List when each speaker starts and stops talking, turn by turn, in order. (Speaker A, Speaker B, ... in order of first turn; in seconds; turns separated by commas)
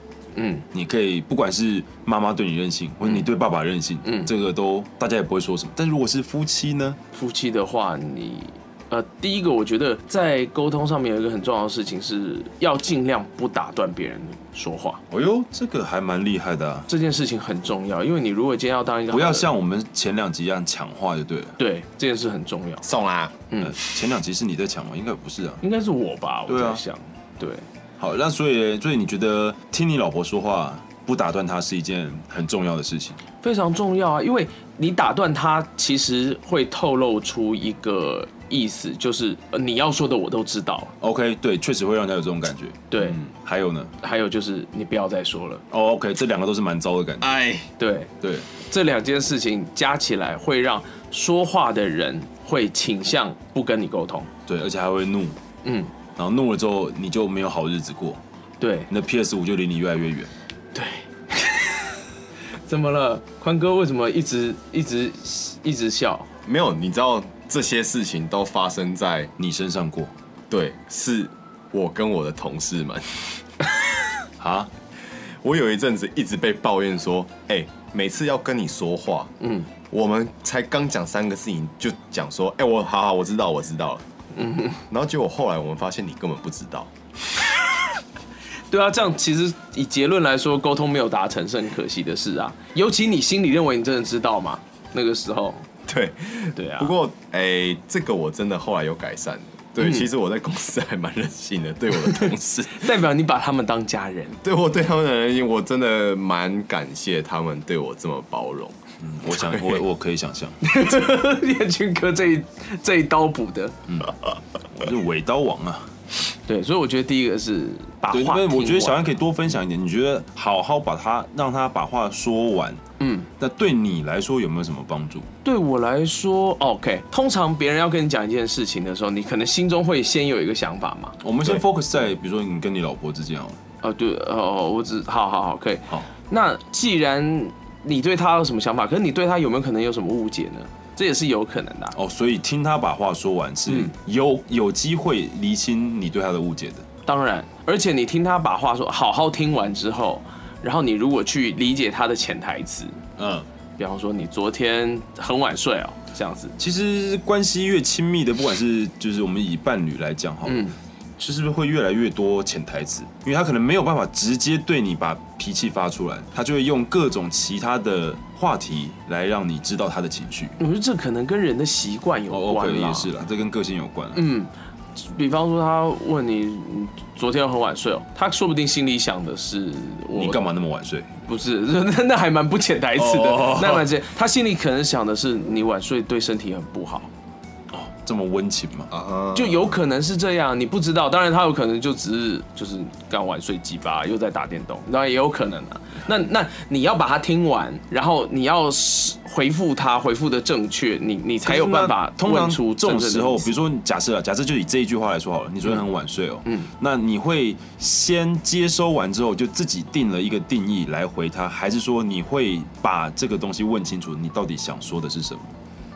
Speaker A: 0.3-0.7, Speaker B: 0.7-7.0, Speaker A: 4.0-4.3, Speaker A: 7.1-15.0, Speaker B: 15.1-16.9, Speaker A: 16.9-19.5, Speaker B: 19.1-21.6, Speaker A: 21.6-22.8, Speaker C: 22.8-23.4, Speaker B: 23.6-25.6, Speaker A: 25.6-27.6, Speaker B: 26.5-26.8, Speaker B: 28.0-33.2, Speaker A: 33.4-40.9, Speaker B: 41.0-43.9, Speaker A: 42.9-43.2, Speaker A: 44.0-45.6, Speaker B: 45.7-47.4, Speaker C: 47.2-47.7, Speaker A: 47.8-54.3, Speaker B: 48.2-48.5, Speaker B: 54.5-55.4, Speaker A: 55.6-55.9, Speaker B: 56.1-58.2, Speaker A: 58.6-58.9, Speaker B: 58.9-60.3, Speaker A: 60.7-61.9, Speaker A: 62.6-66.3, Speaker C: 66.4-69.3, Speaker B: 69.4-70.1, Speaker C: 70.5-73.4, Speaker B: 74.4-74.7, Speaker C: 75.4-79.3, Speaker A: 79.4-79.7, Speaker C: 79.9-84.0, Speaker A: 84.3-84.8, Speaker C: 84.9-86.9, Speaker A: 88.7-95.7, Speaker C: 95.9-102.9, Speaker A: 96.5-96.9, Speaker A: 99.8-100.1, Speaker A: 102.0-104.4, Speaker C: 104.4-109.8, Speaker B: 109.0-110.6, Speaker A: 110.6-113.7, Speaker B: 114.7-115.9, Speaker A: 116.5-119.0, Speaker B: 118.1-122.8, Speaker A: 123.0-123.3, Speaker B: 123.4-125.3, Speaker A: 125.4-131.2, Speaker B: 131.2-133.6, Speaker A: 133.8-141.9, Speaker B: 141.9-146.8, Speaker A: 143.7-143.9, Speaker A: 147.1-153.0, Speaker B: 153.2-153.5, Speaker A: 153.8-156.5, Speaker B: 156.6-170.6, Speaker A: 160.4-160.8, Speaker A: 170.6-173.1, Speaker B: 172.3-174.2, Speaker A: 174.1-180.4, Speaker B: 180.1-181.1, Speaker A: 181.2-187.1, Speaker B: 182.9-183.9, Speaker B: 187.7-188.9, Speaker C: 188.9-189.7, Speaker A: 189.3-203.5, Speaker B: 201.4-215.5, Speaker A: 206.4-206.7